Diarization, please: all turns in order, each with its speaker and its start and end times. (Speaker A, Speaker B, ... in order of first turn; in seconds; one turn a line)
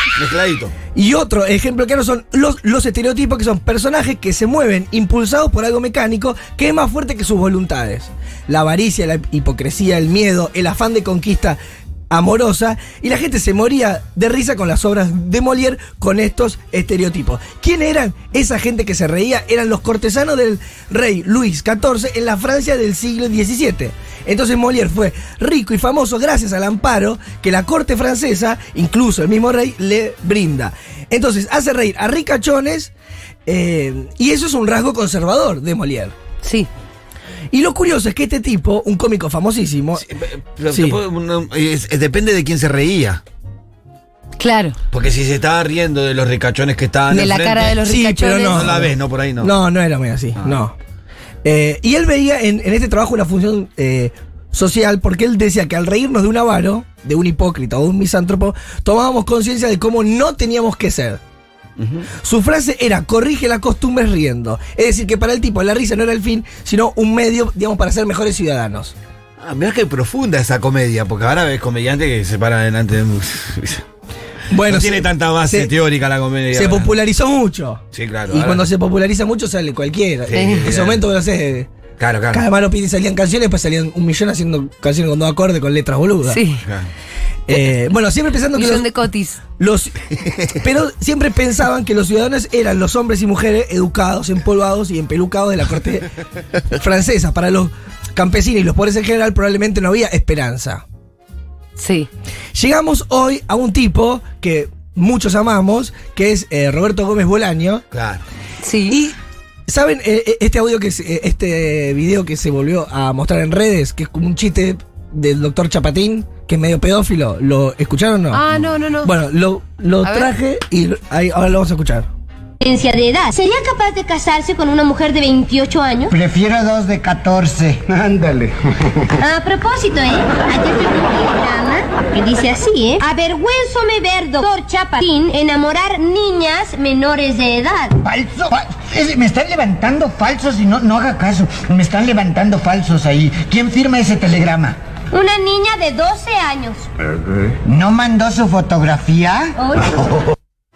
Speaker A: 0.1-0.7
Speaker B: 0.9-11.6
Speaker B: 12.1-32.9
Speaker B: 33.5-36.1
Speaker C: 36.4-36.7
Speaker B: 37.5-40.0
Speaker A: 40.0-43.2
Speaker B: 40.7-41.0
Speaker C: 44.4-44.8
Speaker A: 44.9-47.8
Speaker C: 47.1-48.7
Speaker B: 47.8-50.8
Speaker A: 48.5-49.5
Speaker B: 51.4-61.2
Speaker A: 61.8-62.1
Speaker B: 62.1-68.9
Speaker A: 69.4-73.8
Speaker B: 74.5-75.7
Speaker A: 74.6-76.9
Speaker B: 76.5-81.7
Speaker A: 77.9-78.7
Speaker A: 80.3-81.0
Speaker C: 80.3-80.7
Speaker A: 82.0-82.4
Speaker B: 82.3-86.4
Speaker C: 86.2-86.6
Speaker A: 86.6-86.9
Speaker B: 87.5-88.9
Speaker C: 88.5-89.4
Speaker B: 89.6-96.1
Speaker B: 96.7-100.8
Speaker C: 101.8-102.1
Speaker B: 102.5-107.8
Speaker A: 107.9-108.2
Speaker C: 108.6-109.0
Speaker B: 108.9-109.2
Speaker B: 109.7-118.4
Speaker C: 118.3-119.1
Speaker B: 119.0-122.1
Speaker C: 120.0-120.3
Speaker D: 122.6-126.1
Speaker E: 126.1-128.4
Speaker D: 129.2-138.0
Speaker E: 138.0-144.8
Speaker D: 145.1-146.9
Speaker E: 147.6-149.6
Speaker D: 149.6-150.1